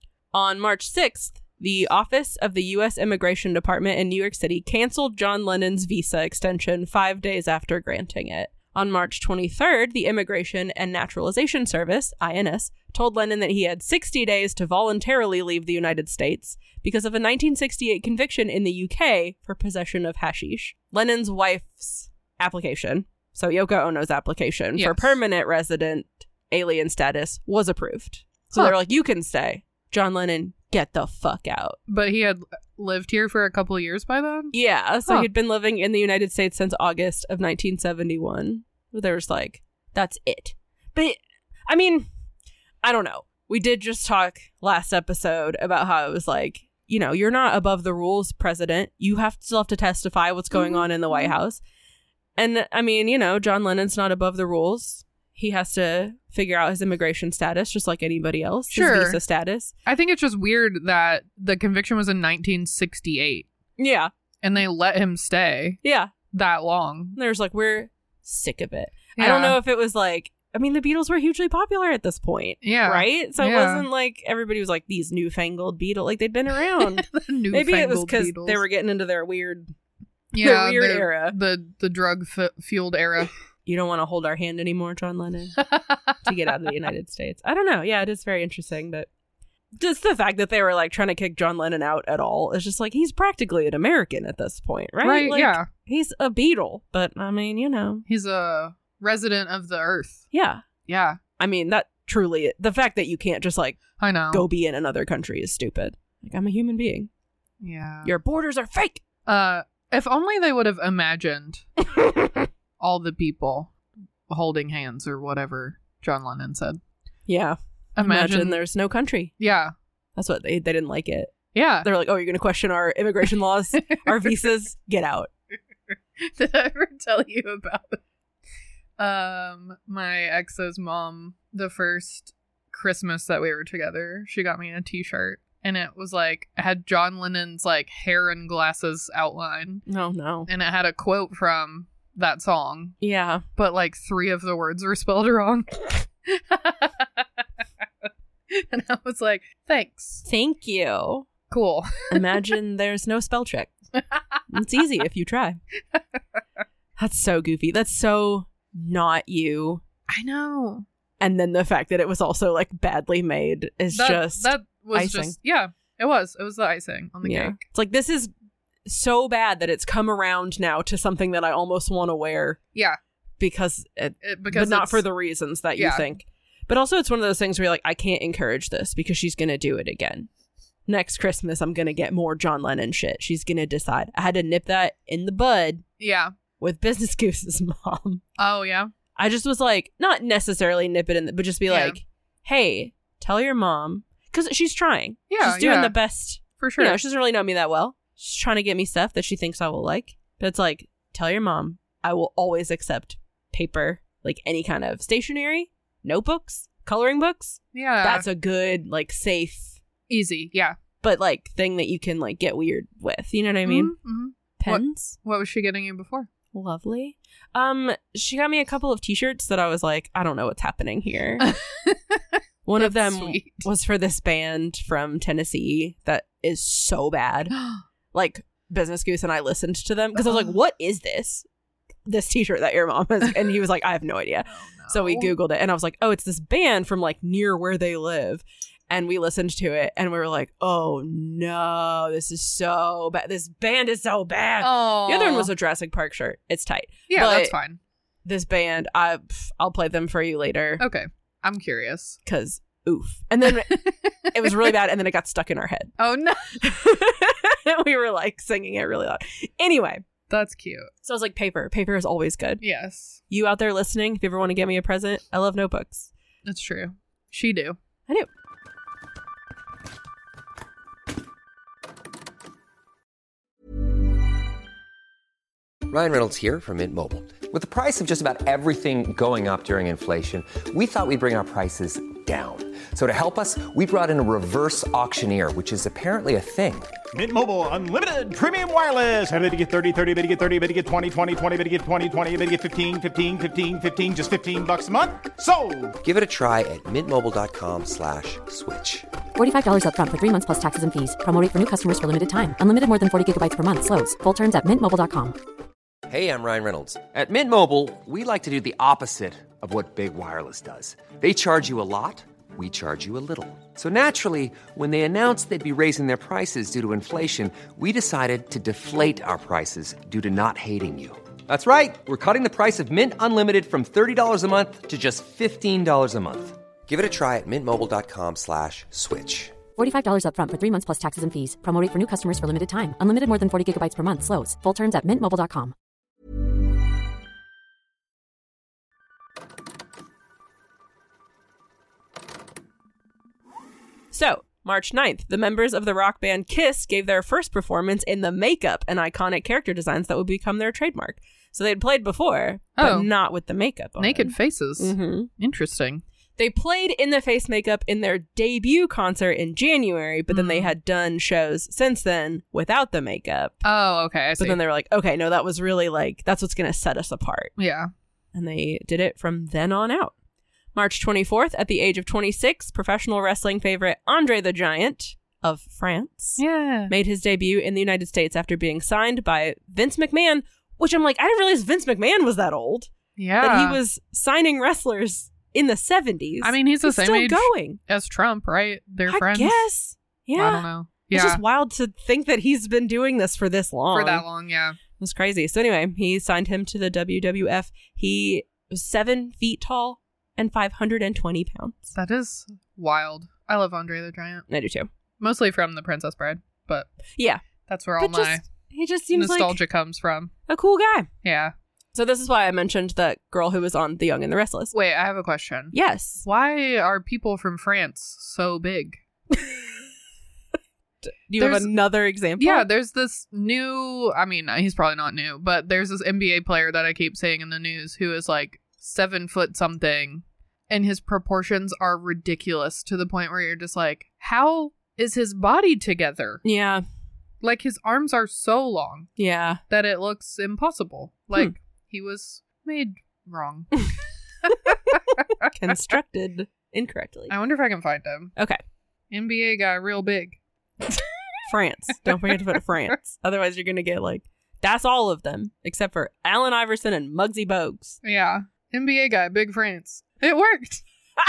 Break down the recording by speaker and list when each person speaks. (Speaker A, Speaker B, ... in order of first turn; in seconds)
Speaker A: 0.3-31.8, 34.5-42.1, 42.8-51.6, 52.4-59.7, 63.8-64.1, 65.8-66.1, 67.2-79.7, 80.4-81.3, 83.6-85.6, 86.2-89.1, 89.8-98.0, 100.3-100.6, 101.4-107.1, 108.0-109.0, 117.3-119.3, 120.2-125.3, 139.9-140.5, 143.0-143.4, 150.2-151.3, 152.1-153.7, 154.5-155.6, 157.0-159.8, 161.2-165.3, 167.2-168.3, 168.8-172.6, 173.4-180.3, 180.9-185.8, 186.6-188.2, 189.2-209.8, 211.0-213.9, 214.6-215.2, 216.5-221.5, 222.6-227.5, 228.1-231.4, 232.1-247.5, 248.2-250.8, 252.2-255.9, 256.6-260.0, 261.0-262.6, 263.3-266.1, 344.1-355.3, 356.4-363.6, 364.4-367.5, 368.3-370.1, 370.7-387.8, 389.1-394.2, 395.0-401.9, 404.5-404.9, 407.1-407.4, 408.0-409.6, 410.5-411.1, 411.9-414.7, 415.7-416.2, 419.4-419.6, 421.0-422.7, 436.4-436.8, 439.2-439.6, 445.4-447.3, 451.5-458.0
Speaker B: 24.8-25.1, 31.9-34.5, 50.5-51.3, 58.7-59.2, 59.9-63.5, 64.4-65.8, 66.3-67.2, 69.2-69.6, 72.6-73.8, 76.8-78.6, 80.3-83.3, 85.6-86.3, 95.0-95.7, 98.1-100.2, 100.9-101.2, 104.0-104.4, 107.6-108.1, 109.3-111.7, 112.8-113.7, 114.3-116.8, 118.0-118.6, 119.4-119.7, 121.5-121.9, 123.8-124.3, 126.2-128.0, 129.0-139.8, 140.5-143.0, 143.6-147.2, 148.5-150.2, 151.5-152.2, 154.1-154.4, 160.1-160.8, 163.9-167.6, 174.2-175.0, 175.8-176.1, 186.0-186.3, 188.4-188.9, 191.7-192.0, 195.3-195.9, 196.6-197.0, 207.7-208.2, 210.1-210.8, 213.6-216.3, 221.4-222.2, 222.8-223.6, 227.5-227.8, 230.2-230.5, 234.5-235.3, 244.6-245.5, 247.1-247.8, 250.8-252.2, 253.7-254.7, 256.0-256.6, 260.3-260.9, 262.6-263.2, 266.4-267.8, 352.8-353.1, 354.0-356.0, 360.3-360.7, 363.6-364.6, 367.6-367.9, 376.4-376.9, 383.2-383.8, 386.4-389.6, 390.4-391.4, 393.9-394.8, 401.9-404.4, 405.2-406.9, 407.7-408.4, 409.1-410.3, 411.2-411.5, 414.7-419.0, 421.4-421.7, 422.4-436.4, 437.4-439.1, 439.7-443.9, 444.4-445.0, 447.3-448.3, 449.1-450.4, 458.0-460.8
Speaker C: 275.9-286.9, 296.0-299.1, 306.1-329.6
Speaker D: 287.1-296.0
Speaker E: 299.4-305.4, 329.8-335.7